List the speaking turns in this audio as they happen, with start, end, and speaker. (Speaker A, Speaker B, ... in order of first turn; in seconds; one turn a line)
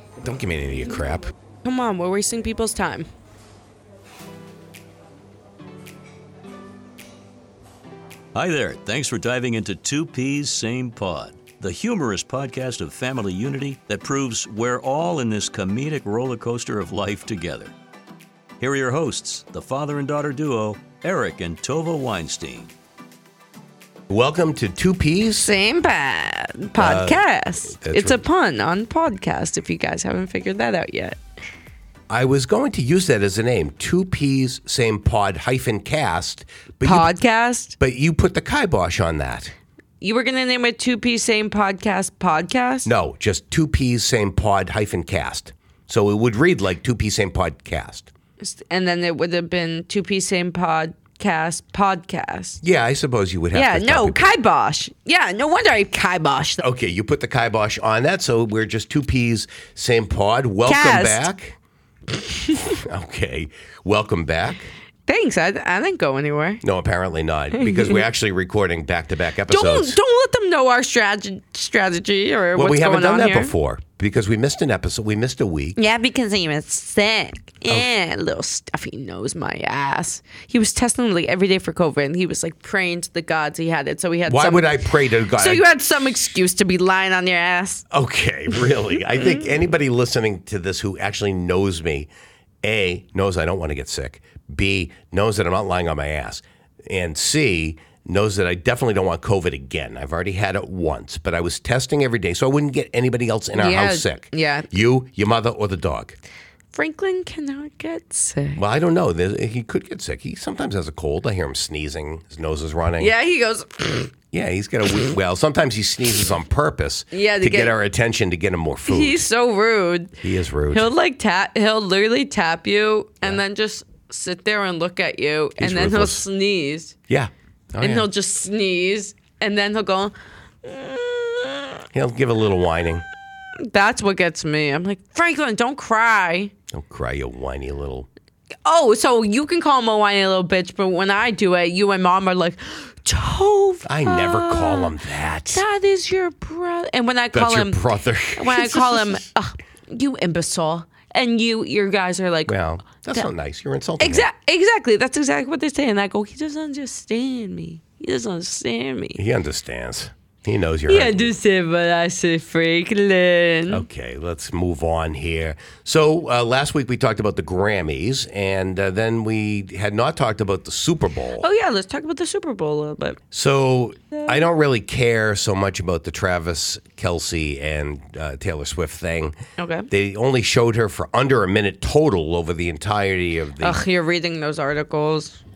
Speaker A: 0.2-1.3
Speaker B: 1.6-3.1
Speaker C: 8.3-17.7
Speaker C: 18.6-22.7
Speaker A: 24.1-25.5
Speaker B: 25.4-31.2
Speaker A: 26.8-28.2
Speaker A: 32.1-37.1
Speaker B: 36.8-37.8
Speaker A: 37.8-39.5
Speaker B: 40.0-42.9
Speaker A: 42.8-48.1
Speaker B: 48.4-52.6
Speaker A: 52.6-54.3
Speaker B: 53.5-56.6
Speaker A: 56.6-61.5
Speaker B: 60.6-61.2
Speaker A: 62.7-64.7
Speaker B: 65.1-66.6
Speaker A: 66.6-70.0
Speaker B: 67.5-68.0
Speaker B: 69.5-73.5
Speaker A: 72.5-75.8
Speaker B: 75.8-87.8
Speaker A: 84.2-85.7
Speaker A: 87.9-92.1
Speaker A: 92.6-106.2
Speaker B: 103.5-104.7
Speaker B: 106.7-108.6
Speaker A: 108.6-113.1
Speaker B: 113.0-114.1
Speaker A: 114.3-119.2
Speaker B: 117.1-117.7
Speaker B: 118.9-127.0
Speaker A: 120.2-120.9
Speaker A: 125.6-126.2
Speaker A: 127.1-128.1
Speaker B: 127.8-131.8
Speaker A: 131.9-133.0
Speaker B: 133.6-136.5
Speaker A: 136.7-138.1
Speaker B: 138.6-144.9
Speaker A: 143.8-145.6
Speaker B: 145.5-147.8
Speaker A: 147.3-149.2
Speaker B: 148.3-152.5
Speaker A: 152.5-154.3
Speaker B: 154.0-159.2
Speaker A: 159.2-161.3
Speaker B: 160.9-163.8
Speaker A: 163.7-171.4
Speaker B: 171.4-173.2
Speaker A: 173.3-179.3
Speaker B: 179.6-179.9
Speaker A: 179.9-183.8
Speaker B: 183.6-185.4